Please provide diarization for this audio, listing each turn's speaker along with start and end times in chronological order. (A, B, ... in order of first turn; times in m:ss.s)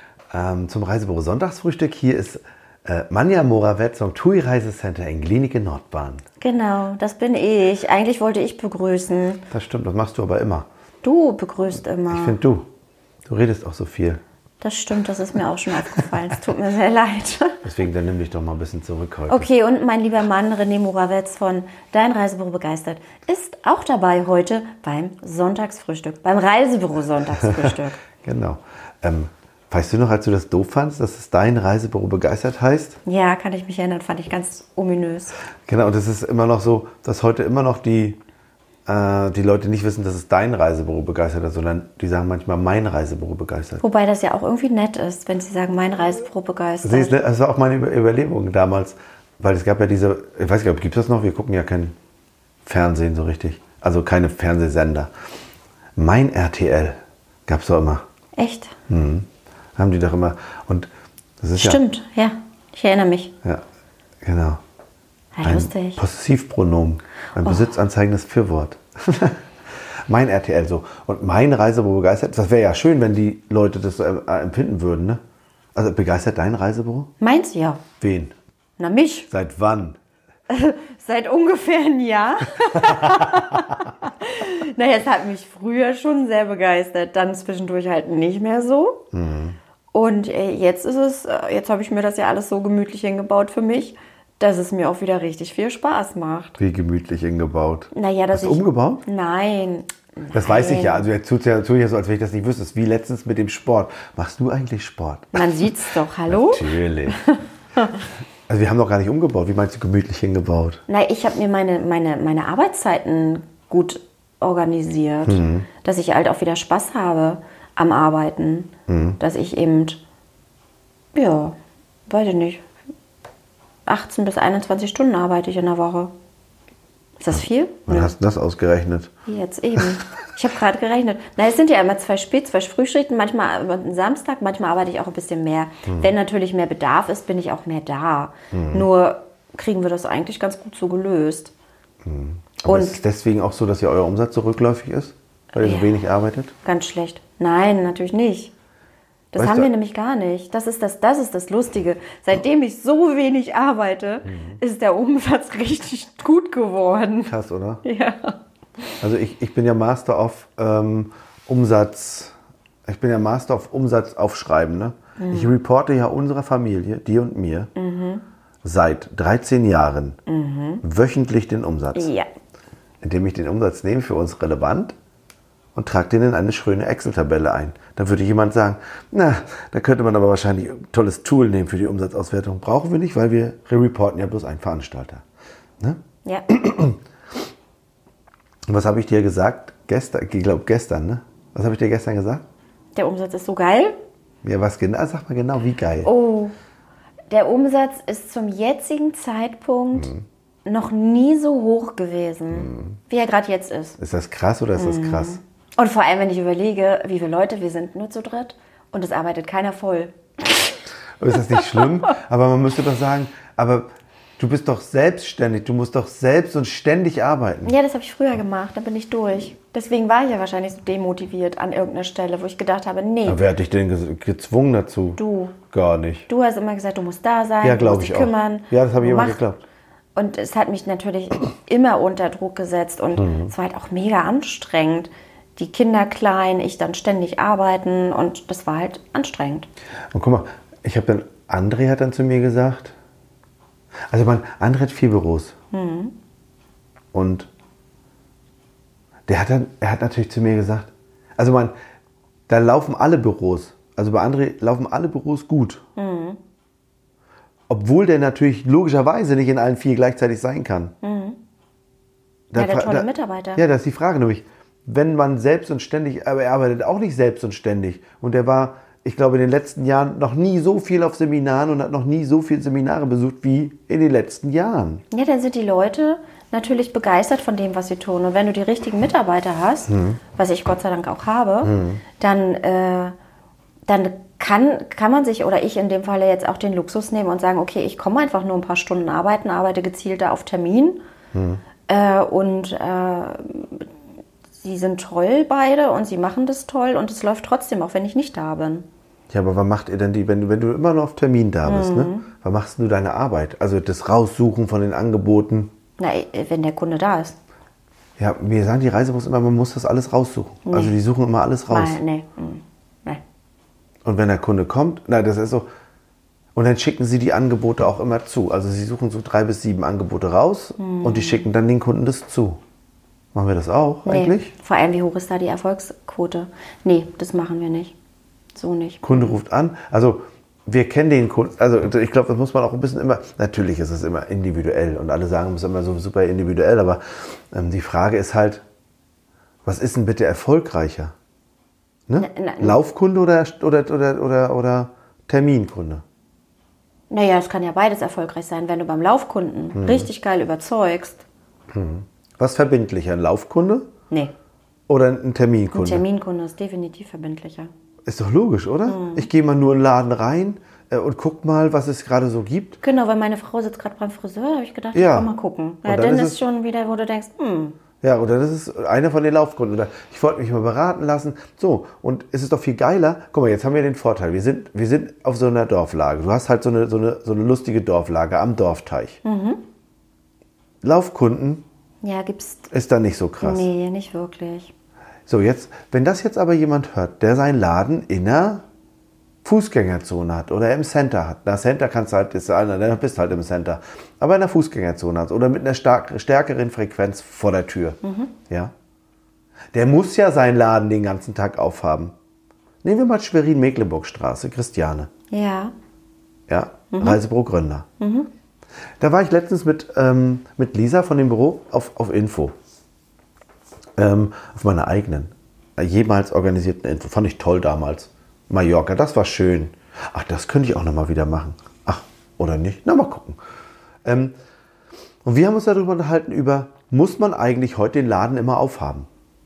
0:00.3-0:06.2 A
0:06.4-0:09.4 B
0:09.5-0:10.7 A
0:11.0-0:12.4 B
0:12.1-0:12.7 A
0:13.2-0:14.2 A
0:14.6-0:17.6 B
0:17.6-0:19.5 A
0:19.3-0:28.0 B
0:27.4-0:27.6 A
0:28.2-0:33.0 A
0:33.0-0:35.4 B
0:35.6-0:38.2 A
0:38.9-0:43.8 A
0:43.8-0:47.2 B
0:46.8-0:51.9 A
0:52.6-0:55.1 A
0:56.0-0:58.0 A
0:58.4-0:58.7 B
0:58.9-1:00.9 A
1:01.4-1:01.8 A
1:01.6-1:03.3 B
1:04.2-1:04.6 A
1:05.3-1:06.0 B
1:05.4-1:09.4 A
1:10.1-1:15.2 A
1:15.7-1:17.1 A
1:17.2-1:17.8 B
1:18.0-1:18.3 A
1:18.8-1:19.3 B
1:19.3-1:20.0 A
1:20.5-1:29.1 B
1:22.6-1:23.6 A
1:29.1-1:29.6 A
1:29.9-1:36.6 B
1:36.6-1:39.0 A
1:37.9-1:41.0 B
1:40.3-1:45.7 A
1:45.3-1:48.0 B
1:46.3-1:47.2 A
1:48.5-1:50.8 A
1:50.9-2:00.0 B
1:55.2-1:55.7 A
1:58.9-1:59.2 A
2:01.1-2:01.6 B
2:02.1-2:02.6 B
2:03.8-2:06.1 B
2:07.2-2:08.1 B
2:07.9-2:09.1 A
2:09.2-2:21.5 B
2:15.8-2:16.1 A
2:18.5-2:18.9 A
2:22.0-2:26.5 A
2:22.7-2:23.0 B
2:25.6-2:26.0 B
2:26.6-2:28.5 B
2:29.3-2:37.3 B
2:29.4-2:29.7 A
2:34.2-2:34.6 A
2:37.2-2:37.8 A
2:37.8-2:38.4 B
2:39.0-2:42.3 A
2:42.9-2:47.7 A
2:45.2-2:45.5 B
2:47.8-2:48.2 B
2:48.6-2:50.2 A
2:50.3-2:50.8 B
2:50.8-2:52.1 A
2:51.9-2:52.3 B
2:53.0-2:54.9 A
2:55.7-3:05.2 A
3:05.8-3:07.0 A
3:08.7-3:12.4 A
3:12.9-3:13.9 B
3:14.4-3:16.1 A
3:16.0-3:16.5 B
3:17.3-3:20.1 B
3:19.9-3:20.2 A
3:20.6-3:24.0 B
3:22.5-3:23.0 A
3:24.0-3:25.4 A
3:24.7-3:30.6 B
3:31.2-3:33.9 A
3:34.4-3:37.7 A
3:37.6-3:43.4 B
3:43.2-3:45.2 A
3:45.2-3:45.6 B
3:45.7-3:46.3 A
3:46.3-3:49.4 B
3:47.6-3:49.6 A
3:50.1-3:59.7 B
3:53.2-3:53.5 A
4:00.1-4:02.9 A
4:04.1-4:05.5 A
4:05.7-4:06.1 B
4:07.1-4:07.5 A
4:09.3-4:11.7 A
4:12.5-4:15.8 A
4:16.0-4:16.4 B
4:17.7-4:20.9 A
4:21.0-4:21.4 B
4:22.5-4:35.0 A
4:22.5-4:23.6 B
4:35.1-4:43.1 B
4:39.9-4:40.2 A
4:41.6-4:42.0 A
4:43.8-4:51.0 B
4:51.3-4:51.6 A
4:51.9-4:53.9 B
4:54.6-4:58.9 B
4:59.3-5:05.7 A
5:01.6-5:02.2 B
5:06.0-5:07.4 B
5:08.2-5:12.0 A
5:10.6-5:10.9 B
5:11.7-5:13.2 B
5:14.0-5:15.7 A
5:16.5-5:22.6 A
5:20.8-5:21.4 B
5:23.3-5:24.5 A
5:24.0-5:27.9 B
5:28.5-5:29.4 B
5:29.0-5:38.6 A
5:39.6-5:41.1 A
5:42.1-5:46.0 A
5:42.2-5:42.8 B
5:47.1-5:51.2 B
5:49.7-5:50.1 A
5:51.7-5:53.9 A
5:54.9-5:56.0 A
5:55.7-5:57.7 B
5:58.0-6:02.8 A
5:58.8-5:59.3 B
6:02.8-6:07.8 B
6:04.9-6:05.3 A
6:05.8-6:06.4 A
6:08.0-6:19.2 A
6:19.2-6:19.6 B
6:20.8-6:21.6 A
6:22.0-6:22.7 B
6:22.7-6:23.7 A
6:23.4-6:24.7 B
6:25.3-6:28.6 A
6:29.4-6:38.7 A
6:38.0-6:38.3 B
6:39.7-6:42.1 A
6:42.8-6:45.1 A
6:45.3-6:45.7 B
6:46.5-6:47.9 A
6:46.9-6:47.2 B
6:48.0-6:48.3 B
6:49.0-6:52.5 A
6:54.0-7:03.4 A
7:04.0-7:04.3 A
7:05.2-7:09.1 A